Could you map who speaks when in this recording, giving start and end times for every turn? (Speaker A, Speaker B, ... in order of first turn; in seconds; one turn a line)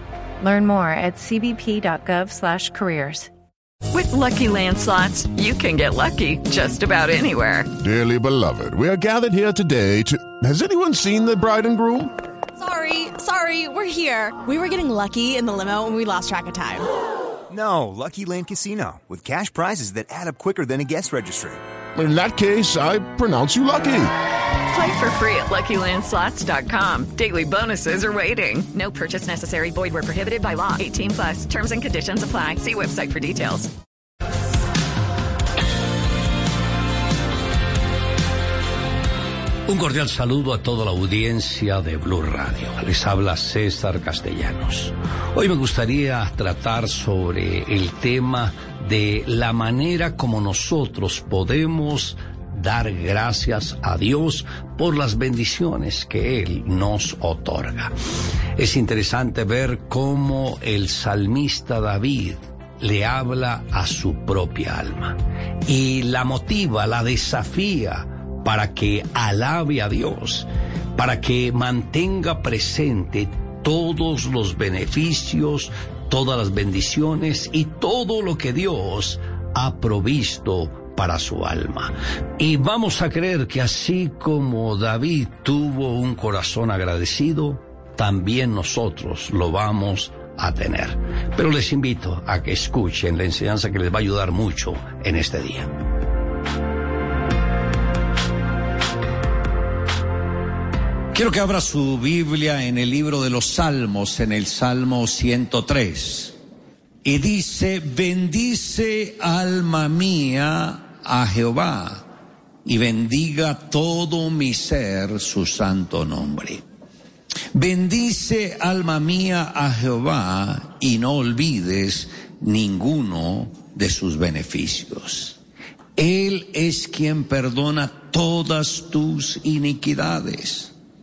Speaker A: 0.4-3.3
Speaker B: 3.9-7.7
Speaker C: 7.8-12.1
Speaker D: 12.6-16.9
Speaker E: 17.5-21.6
Speaker C: 21.9-24.1
Speaker B: 24.7-33.7
Speaker F: 39.7-57.9
Speaker F: 58.6-95.7
Speaker F: 101.1-106.4
Speaker F: 107.0-112.1
Speaker F: 112.6-116.6
Speaker F: 117.5-125.4
Speaker F: 126.0-130.7